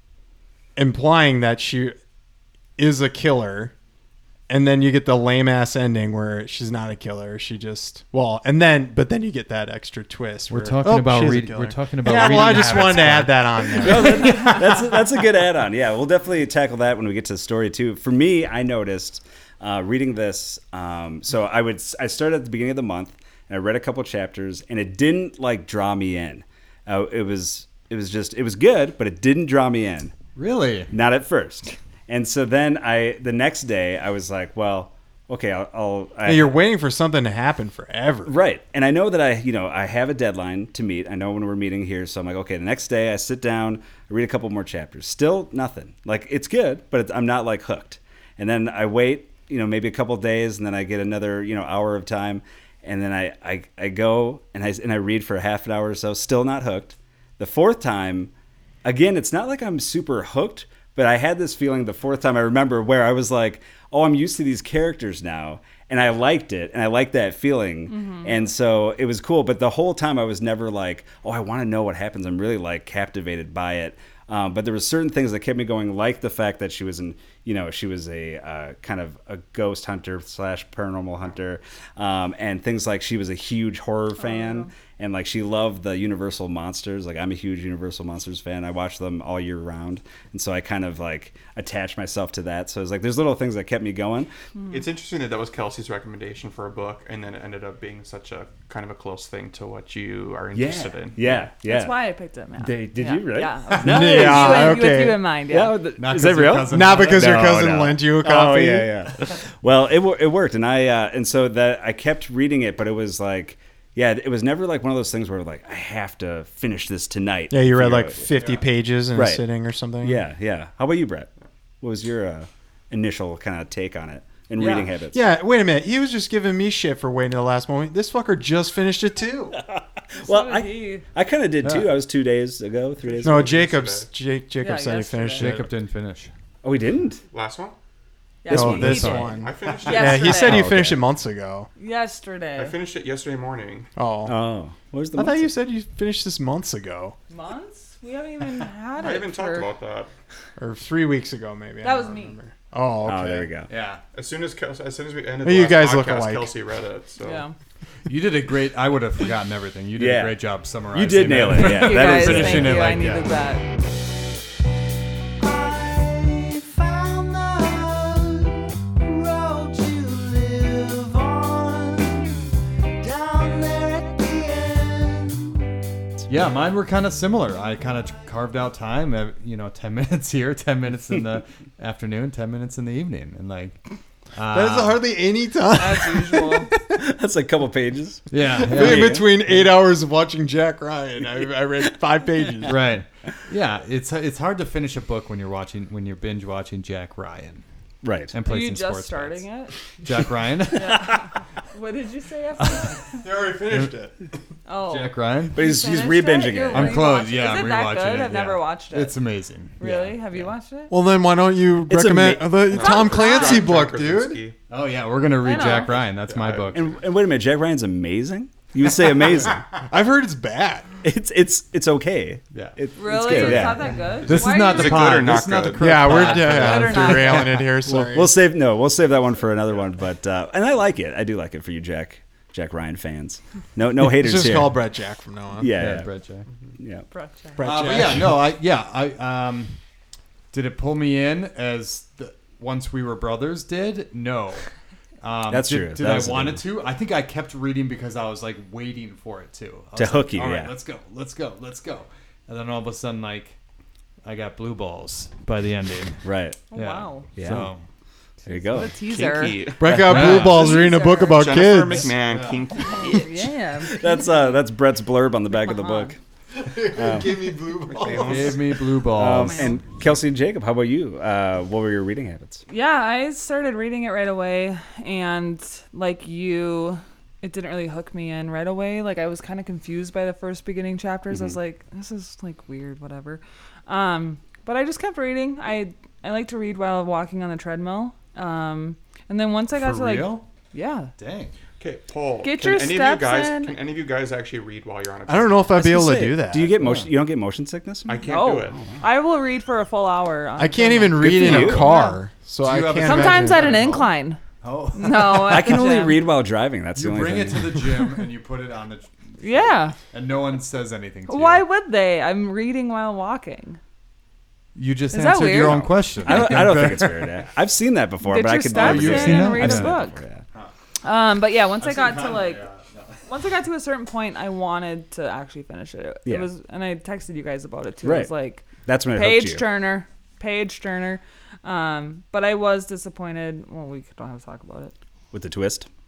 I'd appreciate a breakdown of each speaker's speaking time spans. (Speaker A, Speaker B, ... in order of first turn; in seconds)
Speaker A: 0.8-1.9, 2.8-3.7, 4.5-14.4, 36.2-38.3, 103.8-105.2, 106.6-109.1, 117.5-120.2, 125.1-129.6, 133.2-135.7, 138.5-141.7, 144.0-144.3, 145.2-147.2, 150.6-153.5, 155.4-156.5, 184.5-186.7, 188.5-192.8, 203.1-204.2, 210.9-214.4, 219.9-220.9, 225.8-228.3, 234.0-235.7, 237.6-238.5, 259.8-262.1, 266.6-268.7, 295.3-296.7, 300.6-303.8
Speaker B: 10.5-14.7, 30.4-30.9, 106.0-107.7, 131.6-131.9, 135.4-136.3, 138.5-139.4, 153.7-154.0, 158.1-163.3, 176.3-183.8, 184.3-185.0, 185.8-186.7, 188.3-189.3, 192.7-197.6, 198.3-199.4, 200.0-201.2, 204.9-205.6, 206.7-209.8, 214.7-216.9, 222.5-227.6, 235.8-236.5, 237.6-239.8, 240.5-244.7, 245.2-253.6, 254.2-257.9, 260.0-260.7, 262.2-262.7, 268.1-269.8, 289.8-290.4, 291.2-291.5, 296.8-297.1, 302.6-305.7, 306.9-311.6, 314.8-317.4, 318.7-319.9, 321.8-323.3
Speaker C: 12.1-13.1, 13.7-30.1, 30.9-36.6, 38.3-58.3, 58.8-94.3, 100.5-102.0, 102.6-104.9, 105.5-118.3, 119.2-119.4, 120.0-121.3, 121.8-125.2, 129.5-133.5, 136.6-137.2, 138.5-138.8, 140.4-141.0, 144.3-145.5, 153.0-153.7, 159.9-160.4, 160.9-162.9, 165.4-172.0, 173.0-175.3, 186.8-189.3, 198.0-198.3, 205.5-207.1, 209.8-210.4, 211.9-212.7, 216.7-219.7, 221.0-224.0, 227.7-234.8, 235.6-236.1, 236.8-237.1, 245.5-246.6, 250.0-250.8, 256.2-256.6, 257.4-257.7, 258.5-258.9, 263.8-266.2, 266.8-267.7, 268.9-272.6, 281.3-281.6, 295.8-298.3, 301.2-301.9, 305.2-307.8, 315.7-320.4, 328.0-328.3, 328.8-329.6, 335.3-335.9
Speaker D: 67.9-68.5, 84.2-84.7, 101.6-105.8, 130.2-131.1, 134.6-135.5, 138.4-139.3, 139.8-140.6, 141.8-142.8, 147.3-149.7, 151.8-152.4, 157.2-157.5, 161.6-163.7, 198.4-199.8, 200.7-203.2, 204.7-209.2, 209.8-210.9, 212.7-213.8, 215.4-216.0, 223.0-225.3, 226.1-227.5, 237.1-237.7, 256.7-257.3, 258.7-259.7, 260.4-261.6, 262.8-264.4, 265.5-266.1, 269.3-269.8, 272.7-291.1, 292.4-293.8, 298.2-302.2, 303.0-304.4, 304.9-306.2, 309.4-310.0, 311.3-313.8, 315.1-315.9, 318.2-320.2, 321.0-322.7, 323.3-334.9
Speaker E: 94.7-101.4, 133.0-134.1, 137.3-137.8, 139.3-140.6, 142.6-143.9, 149.0-150.1, 154.1-157.4, 212.7-214.6, 216.0-216.7, 224.2-226.4, 259.0-263.4, 291.8-295.8, 298.1-298.9